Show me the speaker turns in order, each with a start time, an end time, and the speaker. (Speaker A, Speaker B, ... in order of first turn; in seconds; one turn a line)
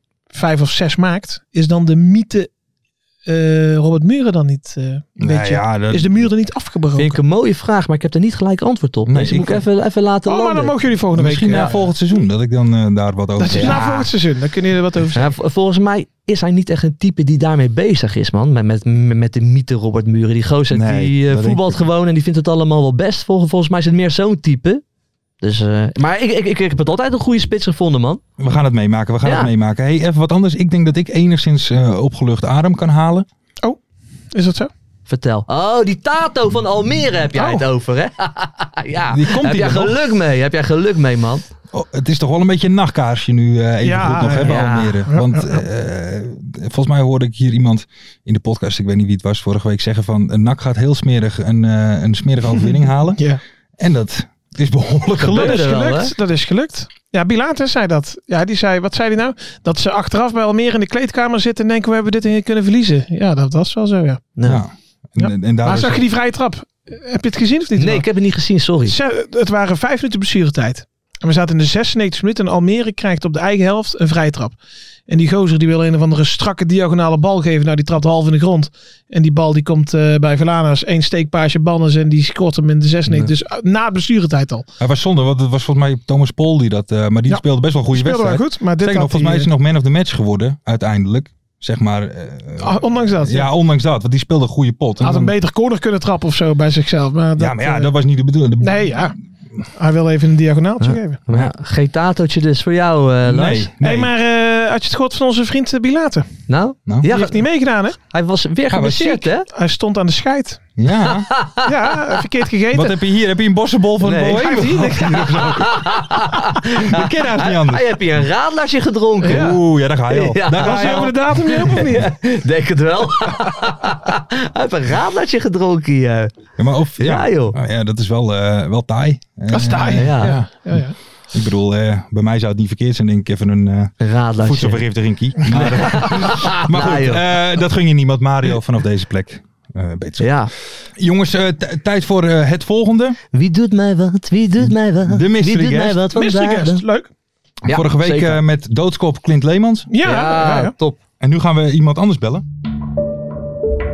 Speaker A: 0.3-2.5
Speaker A: 3.2-7.2
Speaker B: 5.2-6.3
Speaker C: 7.0-10.7
Speaker B: 9.1-9.6
Speaker A: 10.2-11.9
Speaker B: 11.1-13.8
Speaker A: 13.4-15.3
Speaker C: 13.5-14.1
Speaker C: 15.1-24.8
Speaker B: 20.7-21.8
Speaker C: 25.4-28.2
Speaker B: 28.4-33.3
Speaker C: 29.2-29.5
Speaker A: 34.3-34.7
Speaker C: 35.1-41.5
Speaker B: 37.3-37.6
Speaker B: 39.1-40.0
Speaker B: 41.7-55.9
Speaker A: 43.8-45.6
Speaker C: 44.4-45.0
Speaker C: 55.2-56.1
Speaker A: 55.3-64.2
Speaker C: 64.3-64.6
Speaker B: 64.4-66.0
Speaker A: 65.2-68.1
Speaker C: 67.8-69.0
Speaker A: 68.9-74.6
Speaker A: 75.1-84.6
Speaker B: 83.1-83.3
Speaker B: 84.8-95.3
Speaker A: 87.3-89.5
Speaker A: 92.6-93.5
Speaker A: 95.0-97.9
Speaker B: 97.4-99.1
Speaker A: 98.6-99.1
Speaker A: 99.7-101.2
Speaker C: 100.8-103.7
Speaker B: 103.2-104.1
Speaker A: 103.8-106.3
Speaker C: 106.5-107.4
Speaker A: 107.0-108.0
Speaker C: 108.0-109.5
Speaker B: 108.7-109.3
Speaker A: 109.5-110.6
Speaker B: 110.8-111.3
Speaker C: 111.1-111.7
Speaker A: 111.7-113.0
Speaker B: 112.7-117.9
Speaker C: 114.0-114.6
Speaker A: 114.3-115.5
Speaker C: 115.5-119.5
Speaker A: 119.2-119.6
Speaker B: 119.2-121.4
Speaker C: 120.1-126.3
Speaker A: 120.5-122.1
Speaker B: 126.6-143.2
Speaker C: 127.0-127.5
Speaker A: 129.5-130.9
Speaker C: 129.9-130.4
Speaker C: 134.0-134.8
Speaker C: 135.5-137.2
Speaker C: 140.2-140.5
Speaker C: 143.3-146.8
Speaker B: 144.6-146.0
Speaker A: 146.1-147.1
Speaker C: 147.6-148.4
Speaker B: 147.7-149.9
Speaker A: 149.9-150.7
Speaker C: 150.0-151.0
Speaker B: 151.2-152.4